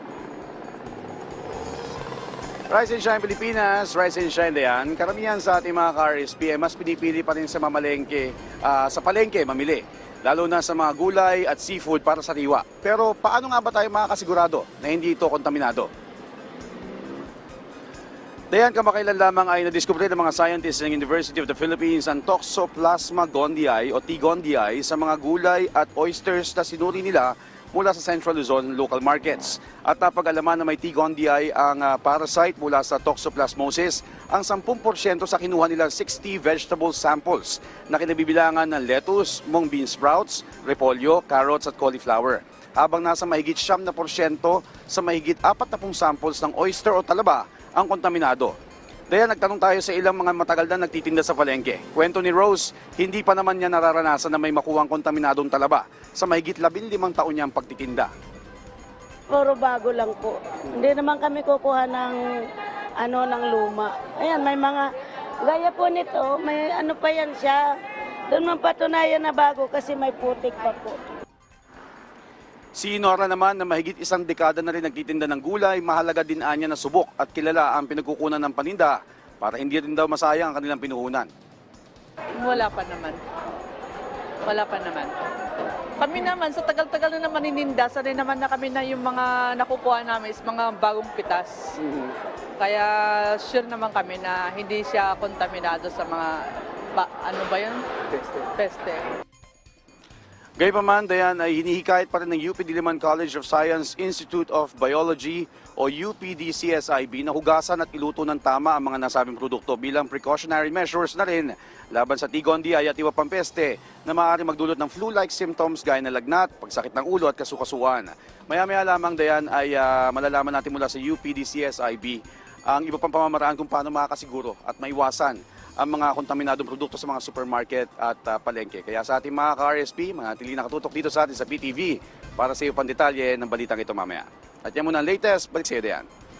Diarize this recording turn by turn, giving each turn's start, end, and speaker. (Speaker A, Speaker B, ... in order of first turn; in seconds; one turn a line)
Speaker A: 2.7-15.9
Speaker A: 18.5-48.6
Speaker A: 49.1-58.1
Speaker B: 59.3-62.2
Speaker B: 63.0-64.9
Speaker B: 65.4-67.6
Speaker B: 68.3-71.0
Speaker A: 72.8-81.3
Speaker C: 82.4-83.2
Speaker C: 84.5-85.1
Speaker C: 86.0-91.8
Speaker A: 91.8-92.1
Speaker C: 92.6-96.4
Speaker C: 97.0-99.1
Speaker A: 100.6-136.1